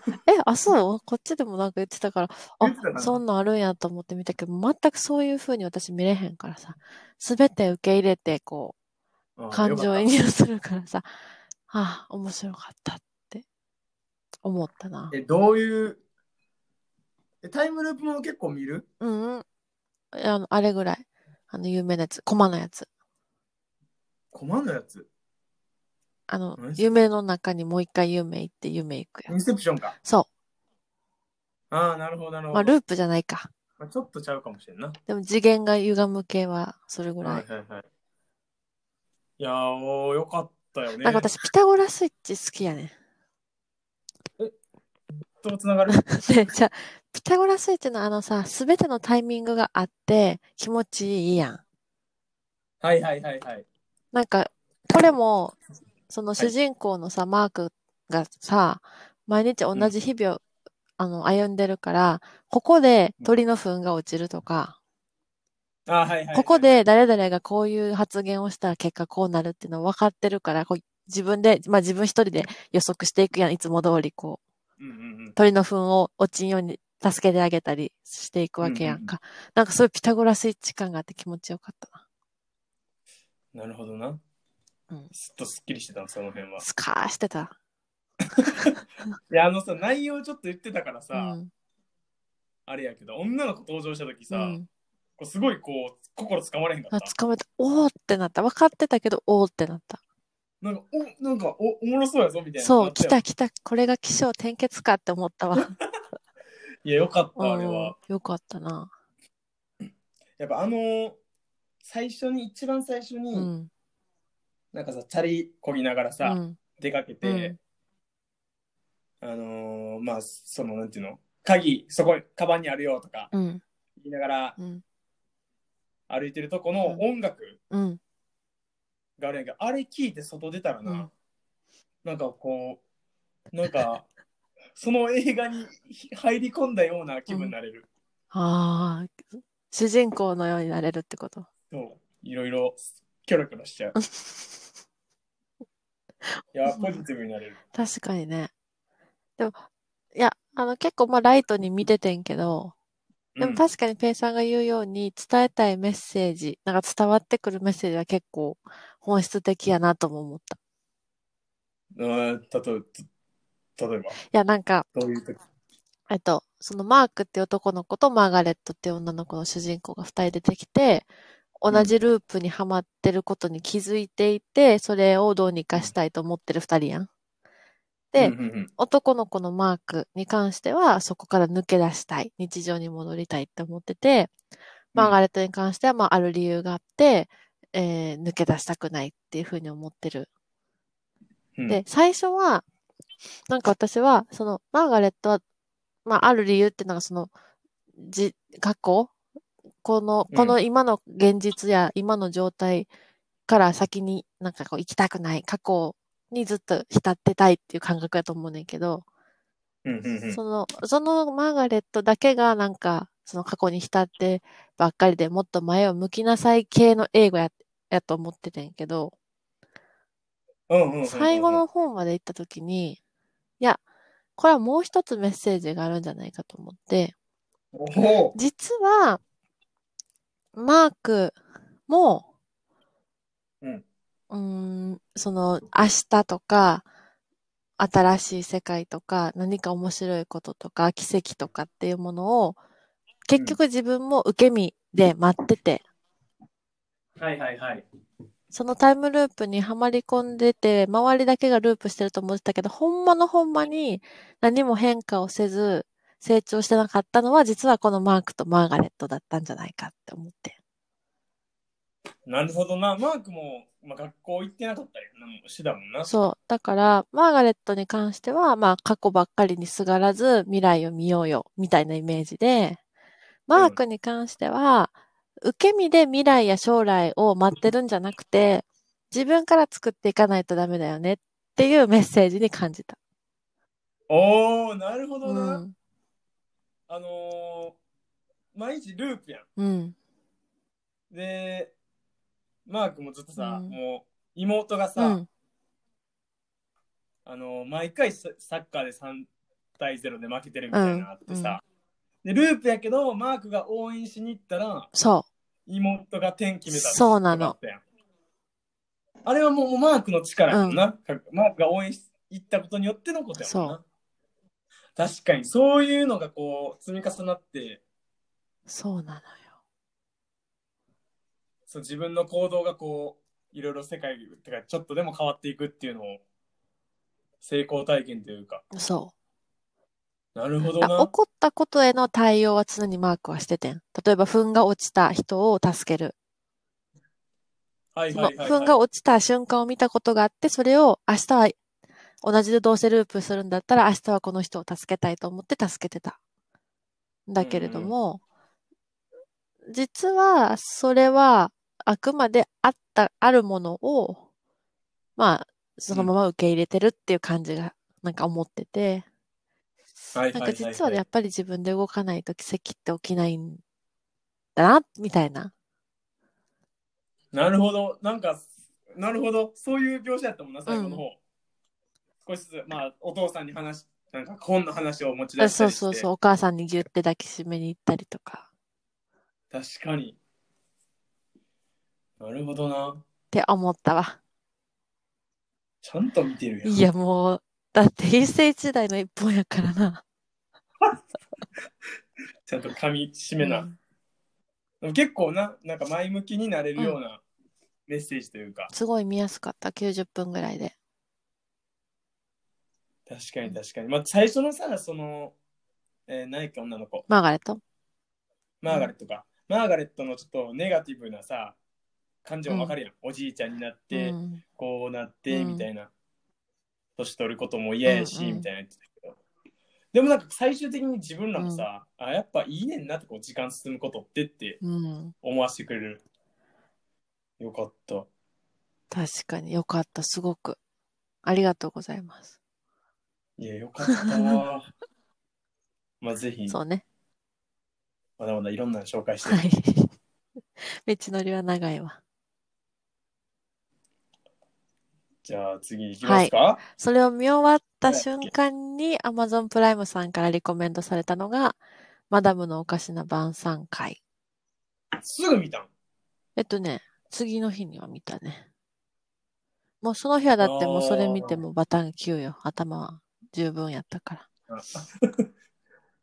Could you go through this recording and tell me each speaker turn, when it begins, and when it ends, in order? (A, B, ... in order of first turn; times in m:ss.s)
0:00.3-0:08.7 A
0:02.6-0:03.2 B
0:09.4-0:10.1 B
0:09.5-0:11.1 A
0:11.7-0:13.4 A
0:14.4-0:15.1 A
0:15.1-0:16.0 B
0:17.4-0:18.9 B
0:19.0-0:19.4 A
0:20.1-0:22.9 A
0:24.3-0:25.1 B
0:26.3-0:29.3 A
0:26.6-0:26.8 B
0:29.3-0:30.0 B
0:31.7-0:32.7 B
0:32.5-0:33.5 A
0:33.8-0:35.0 B
0:35.1-0:37.4 A
0:37.2-0:37.8 B
0:39.4-0:41.3 B
0:41.0-0:42.9 A
0:45.4-0:46.1 B
0:45.9-0:51.6 A
0:52.8-0:53.6 B
0:54.1-0:55.6 A
0:56.1-1:00.4 A
1:01.0-1:04.8 A
1:05.9-1:06.8 B
1:06.3-1:14.4 A
1:14.8-1:15.4 B
1:15.4-1:22.0 A
1:18.6-1:19.1 B
1:23.5-1:24.2 B
1:25.1-1:26.6 B
1:26.6-1:27.5 A
1:29.3-1:31.4 B
1:31.1-1:31.5 A
1:32.7-1:34.6 B
1:34.3-1:34.7 A
1:35.2-1:37.1 B
1:36.9-1:40.0 A
1:40.6-1:43.2 B
1:42.6-1:45.7 A
1:46.8-1:47.9 B
1:47.4-1:48.9 A
1:50.4-1:51.2 B
1:51.8-1:53.5 B
1:53.3-1:53.7 A
1:54.7-1:57.6 B
1:56.2-1:56.6 A
1:57.2-1:57.6 A
1:59.2-2:03.3 B
2:03.3-2:03.6 A
2:04.0-2:04.6 B
2:04.6-2:04.8 A
2:06.1-2:07.6 B
2:07.7-2:08.0 A
2:09.2-2:11.1 B
2:10.8-2:11.1 A
2:12.0-2:12.8 B
2:13.5-2:14.1 B
2:14.8-2:17.9 B
2:17.3-2:17.5 A
2:18.3-2:21.5 A
2:21.7-2:23.9 B
2:24.0-2:24.6 A
2:26.5-2:27.6 B
2:26.6-2:27.0 A
2:27.7-2:28.5 A
2:29.4-2:29.6 A
2:30.1-2:32.7 A
2:33.4-2:33.6 B
2:33.4-2:40.6 A
2:42.0-2:43.0 B
2:43.8-2:44.2 B
2:44.3-2:44.8 A
2:44.9-2:45.4 B
2:46.1-2:51.1 A
2:51.6-2:57.1 A
2:58.1-3:04.3 A
2:58.2-2:58.7 B
3:04.9-3:10.3 A
3:11.6-3:11.8 B
3:11.7-3:12.6 A
3:13.5-3:15.4 A
3:16.0-3:17.3 A
3:18.0-3:19.1 A
3:19.8-3:22.9 A
3:20.3-3:20.6 B
3:23.5-3:29.0 A
3:29.8-3:30.4 B
3:30.3-3:39.1 A
3:40.7-3:41.6 B
3:41.0-3:43.0 A
3:44.4-3:47.1 A
3:47.7-3:48.3 B
3:48.3-3:49.2 A
3:50.5-3:51.4 A
3:51.9-3:52.2 A
3:54.3-3:56.9 A
3:57.8-4:02.6 A
4:03.3-4:05.8 A
4:03.3-4:03.6 B
4:07.2-4:07.8 B
4:08.5-4:20.6 A
4:22.3-4:26.1 B
4:26.0-4:32.8 A
4:33.5-4:43.0 A
4:44.1-4:45.6 B
4:45.2-4:45.7 A
4:46.9-4:47.8 B
4:48.5-4:49.4 B
4:49.6-4:49.9 A
4:51.1-4:51.7 B
4:52.6-4:55.2 B
4:53.4-4:53.8 A
4:55.0-4:55.2 A
4:57.2-5:01.6 B
5:00.7-5:01.6 A
5:02.2-5:04.9 B
5:04.9-5:05.3 A
5:05.7-5:07.8 B
5:06.7-5:07.5 A
5:09.2-5:13.8 B
5:10.5-5:10.8 A
5:13.4-5:13.8 A
5:15.0-5:17.8 B
5:18.7-5:19.4 A
5:21.7-5:26.2 B
5:27.4-5:28.6 B
5:28.7-5:29.1 A
5:30.4-5:31.1 B
5:30.6-5:36.2 A
5:37.9-5:38.8 B
5:38.1-5:41.6 A
5:42.2-5:46.2 A
5:47.3-5:48.2 A
5:47.4-5:47.9 B
5:49.7-5:54.2 A
5:55.2-5:59.0 A
6:00.1-6:01.0 B
6:00.3-6:03.6 A
6:04.6-6:05.5 A
6:07.3-6:11.2 B
6:10.7-6:11.0 A
6:12.2-6:16.1 B
6:15.4-6:18.5 A
6:19.5-6:20.2 B
6:22.2-6:23.0 B
6:23.3-6:24.2 A
6:25.8-6:26.8 B
6:26.6-6:30.0 A
6:32.4-6:33.7 B
6:33.4-6:33.8 A
6:34.8-6:37.2 B
6:37.9-6:38.7 B
6:38.7-6:40.7 A
6:43.1-6:45.4 B
6:46.1-6:47.1 B
6:47.1-6:47.6 A
6:48.6-6:51.6 B
6:52.2-6:55.9 B
6:52.5-6:52.8 A
6:53.9-6:54.4 A
6:55.3-6:55.7 A
6:57.0-6:59.2 B
6:57.8-6:58.5 A
6:59.9-7:04.6 B
7:01.4-7:01.7 A
7:04.6-7:05.1 A
7:05.2-7:06.0 B
7:07.4-7:08.1 B
7:08.9-7:10.6 A
7:11.2-7:12.3 A
7:13.4-7:14.7 B
7:16.0-7:16.6 B
7:16.5-7:16.8 A
7:18.2-7:19.4 B
7:19.2-7:19.9 A
7:20.6-7:22.0 A
7:25.2-7:26.6 B
7:26.0-7:31.6 A
7:27.9-7:28.3 B
7:32.1-7:34.0 A
7:35.0-7:35.7 B
7:36.4-7:38.4 A
7:39.8-7:44.3 A
7:40.4-7:41.4 B
7:44.5-7:45.3 B